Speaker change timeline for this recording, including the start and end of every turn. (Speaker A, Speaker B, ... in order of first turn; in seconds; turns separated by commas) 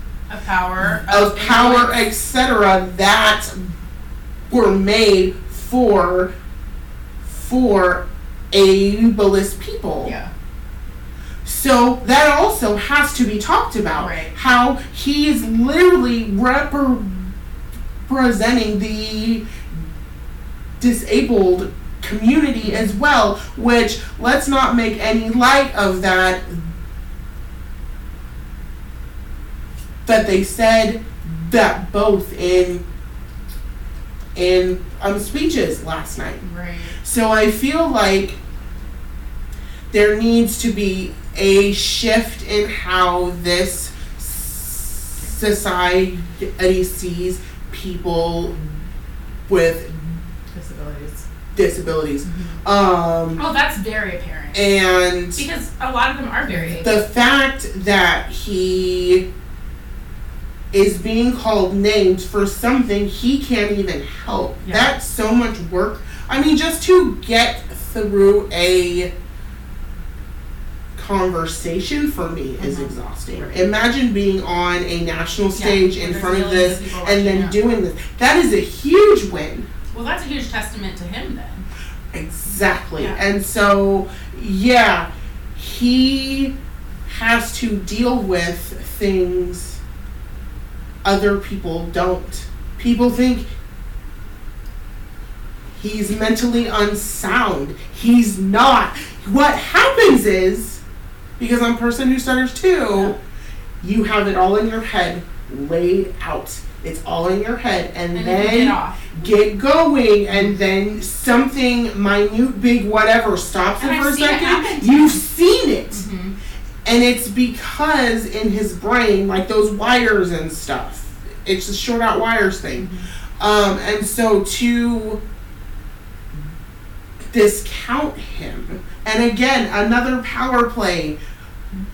Speaker A: 0.3-2.0, Speaker B: 0.8-3.7, Speaker B: 4.5-6.3, Speaker B: 7.3-10.1, Speaker A: 10.0-10.3, Speaker B: 11.4-17.3, Speaker A: 14.0-14.3, Speaker B: 18.1-19.4, Speaker B: 20.8-26.7, Speaker B: 30.1-32.8, Speaker B: 34.4-36.4, Speaker A: 36.4-37.0, Speaker B: 37.0-38.4, Speaker B: 39.9-48.6, Speaker B: 49.5-49.9, Speaker A: 50.5-51.2, Speaker B: 51.5-53.4, Speaker A: 52.2-52.6, Speaker A: 53.4-54.6, Speaker B: 54.5-55.5, Speaker A: 55.4-57.0, Speaker B: 56.5-59.2, Speaker B: 60.7-69.1, Speaker A: 64.6-64.9, Speaker B: 71.0-79.7, Speaker A: 72.6-73.0, Speaker A: 75.5-77.6, Speaker A: 79.9-81.7, Speaker B: 82.1-86.5, Speaker B: 87.1-89.8, Speaker B: 91.0-93.5, Speaker B: 95.8-100.8, Speaker B: 101.4-103.1, Speaker B: 103.8-116.0, Speaker A: 108.1-109.1, Speaker A: 110.3-110.5, Speaker A: 113.8-115.2, Speaker A: 115.9-116.3, Speaker B: 116.8-125.2, Speaker A: 122.8-123.1, Speaker B: 127.3-131.2